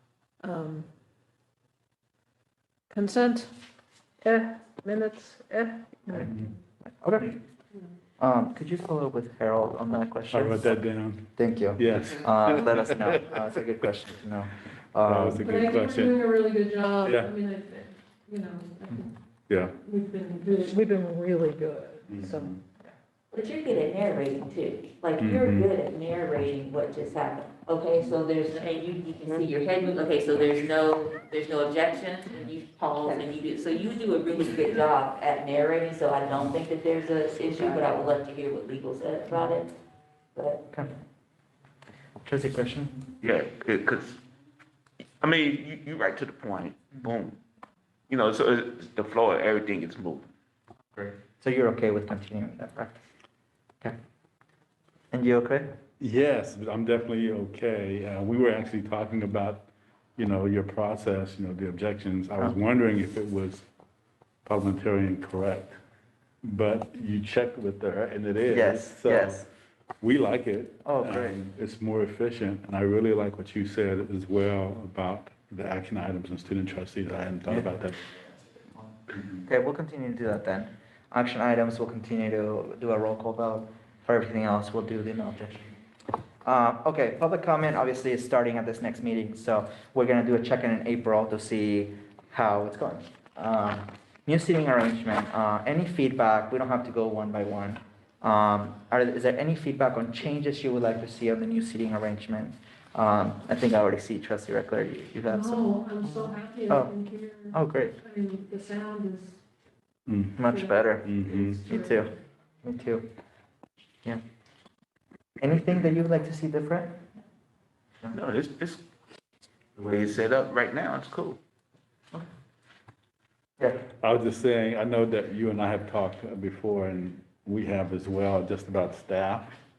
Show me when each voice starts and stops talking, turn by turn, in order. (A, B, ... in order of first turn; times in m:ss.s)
0:00.4-0:00.9 A
0:02.9-0:03.5 A
0:04.2-0:06.3 A
0:06.1-0:06.4 B
0:07.0-0:07.4 B
0:08.2-0:10.8 B
0:10.3-0:13.2 C
0:11.4-0:15.5 B
0:15.0-0:16.3 C
0:15.4-0:19.1 A
0:17.0-0:17.3 C
0:19.5-0:19.7 C
0:19.8-0:22.5 A
0:22.1-0:22.6 C
0:23.3-0:39.7 D
0:25.2-0:25.7 C
0:40.4-0:40.8 D
0:42.2-0:43.0 B
0:43.2-0:44.2 E
0:45.2-0:47.4 E
0:48.1-0:50.3 E
0:50.9-0:53.0 B
0:55.1-0:55.7 B
0:56.0-1:03.6 C
1:04.4-1:05.8 C
1:06.4-1:09.4 C
1:08.5-1:09.4 B
1:10.0-1:18.0 C
1:10.8-1:11.4 B
1:18.7-1:25.7 B
1:26.4-1:46.9 B
1:45.3-1:49.4 A
1:47.5-1:48.0 B
1:50.1-1:50.4 C
1:50.4-1:52.1 B
1:50.5-1:52.1 A
1:51.0-1:51.6 C
1:52.6-1:53.0 B
1:55.4-1:57.0 B
1:58.1-1:58.8 E
1:59.8-2:01.4 E
2:04.0-2:09.5 C